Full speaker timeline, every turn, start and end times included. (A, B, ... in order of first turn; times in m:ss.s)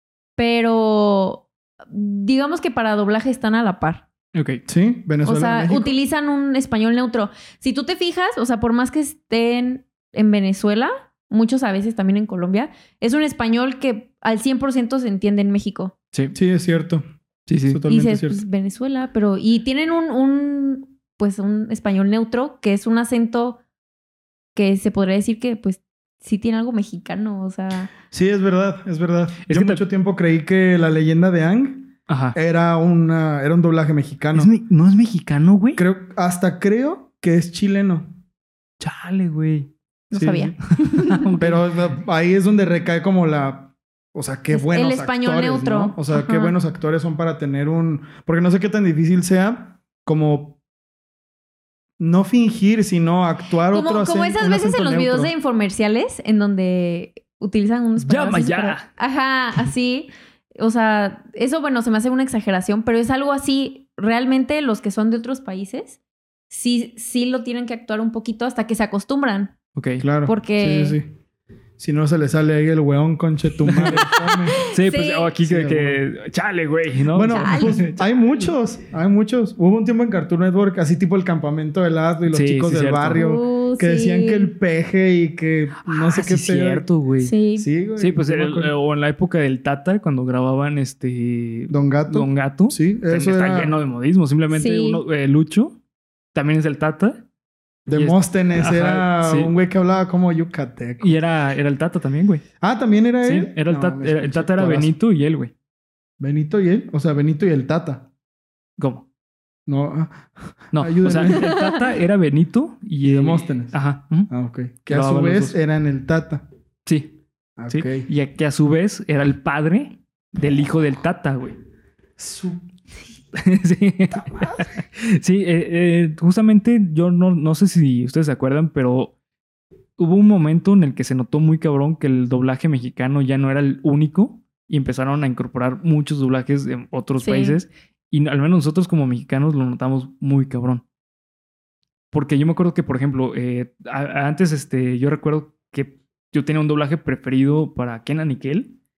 0:00.4-0:04.0 A
0:04.3-0:04.6 B
0:04.7-0:06.0 C
0:05.2-0:15.9 A
0:16.3-0:17.0 C
0:17.5-0:17.8 B
0:17.6-0:18.4 C
0:17.9-0:23.6 A
0:24.5-0:27.9 A
0:28.1-0:34.5 C
0:29.4-0:29.8 B
0:32.1-0:32.4 B
0:34.3-0:35.8 B
0:35.8-0:38.1 C
0:38.8-0:39.7 B
0:40.1-0:41.4 A
0:40.1-0:40.5 C
0:40.9-0:41.5 B
0:41.4-0:50.6 C
0:44.5-0:46.5 A
0:52.0-0:55.3 C
0:53.7-1:09.5 A
0:58.0-0:58.8 B
1:09.8-1:10.0 B
1:10.0-1:11.1 C
1:10.2-1:11.0 A
1:11.8-1:14.6 C
1:13.6-1:18.2 B
1:14.1-1:15.3 A
1:15.4-1:16.0 C
1:17.1-1:26.8 C
1:17.3-1:17.8 A
1:22.3-1:23.2 B
1:23.1-1:24.5 A
1:25.8-1:27.3 B
1:27.2-1:27.7 A
1:27.6-1:28.7 C
1:28.0-1:35.8 B
1:31.7-1:33.7 C
1:34.5-1:35.0 A
1:36.3-1:37.2 B
1:37.9-1:41.2 C
1:37.9-1:39.5 B
1:41.0-1:42.4 B
1:42.6-1:44.9 C
1:43.2-1:45.5 B
1:46.2-1:48.1 C
1:48.8-1:49.0 B
1:49.7-1:51.5 C
1:50.7-1:54.3 B
1:51.3-1:51.8 A
1:53.0-1:56.4 C
1:54.9-1:55.6 B
1:56.8-1:57.2 B
1:57.6-1:58.1 C
1:57.7-2:01.6 B
2:02.2-2:02.7 C
2:03.3-2:09.1 B
2:04.2-2:04.6 C
2:10.0-2:20.8 B
2:17.2-2:17.6 A
2:22.1-2:28.8 B